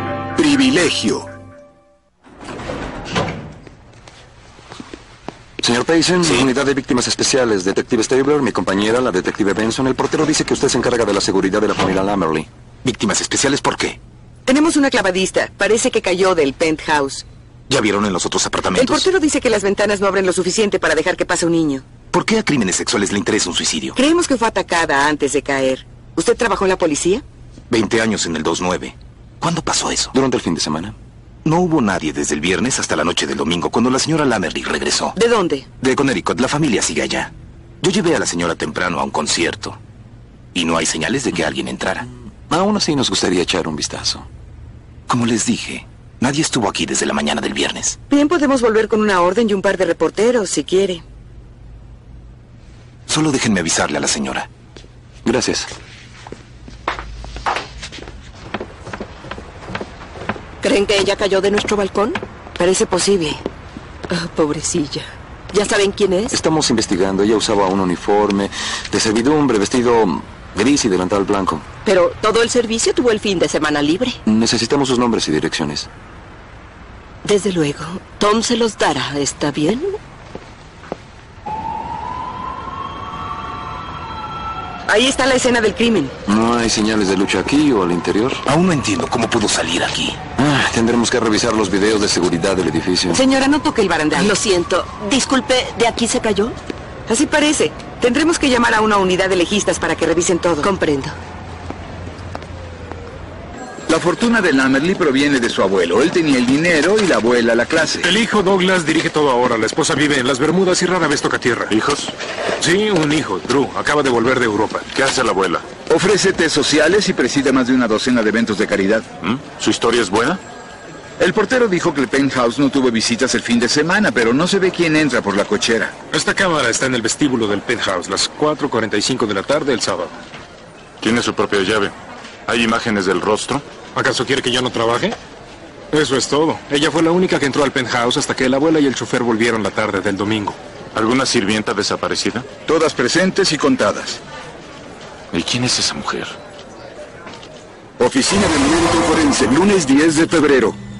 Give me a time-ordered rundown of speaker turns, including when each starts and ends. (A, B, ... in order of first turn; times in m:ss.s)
0:00.4-0:01.2 A
0:05.6-0:12.5 B
0:12.8-0:14.0 C
0:14.4-0:17.2 D
0:17.7-0:19.1 C
0:18.8-0:21.8 D
0:22.1-0:24.0 C
0:24.0-0:27.2 D
0:27.7-0:30.1 C
0:30.1-0:31.0 B
0:31.4-0:35.2 C
0:35.2-0:35.7 D
0:35.8-0:37.3 C
0:37.8-0:39.8 C
0:40.5-0:42.0 C
0:42.5-0:44.2 B
0:45.1-0:48.0 C
0:48.1-0:51.0 D
0:53.1-0:54.5 C
0:55.2-0:55.7 B
1:00.6-1:02.2 E
1:02.6-1:03.4 D
1:04.1-1:06.3 E
1:06.3-1:11.7 B
1:11.9-1:14.2 E
1:14.2-1:15.9 B
1:17.2-1:20.0 E
1:24.9-1:26.2 D
1:26.3-1:28.4 B
1:28.4-1:30.2 C
1:30.4-1:33.2 B
1:33.1-1:34.3 D
1:34.2-1:36.6 E
1:37.1-1:40.7 D
1:40.6-1:41.2 E
1:43.9-1:48.1 F
1:48.0-1:51.7 G
1:51.7-1:52.1 H
1:52.6-1:54.9 G
1:54.9-1:55.7 H
1:55.9-1:59.1 F
1:59.2-2:00.4 H
2:01.2-2:05.9 F
2:06.1-2:10.2 G
2:11.0-2:11.9 H
2:12.5-2:13.6 H
2:13.9-2:15.2 G
2:15.9-2:20.6 G
2:20.9-2:22.5 H
2:22.6-2:24.2 F
2:25.3-2:26.3 H
2:28.0-2:30.8 A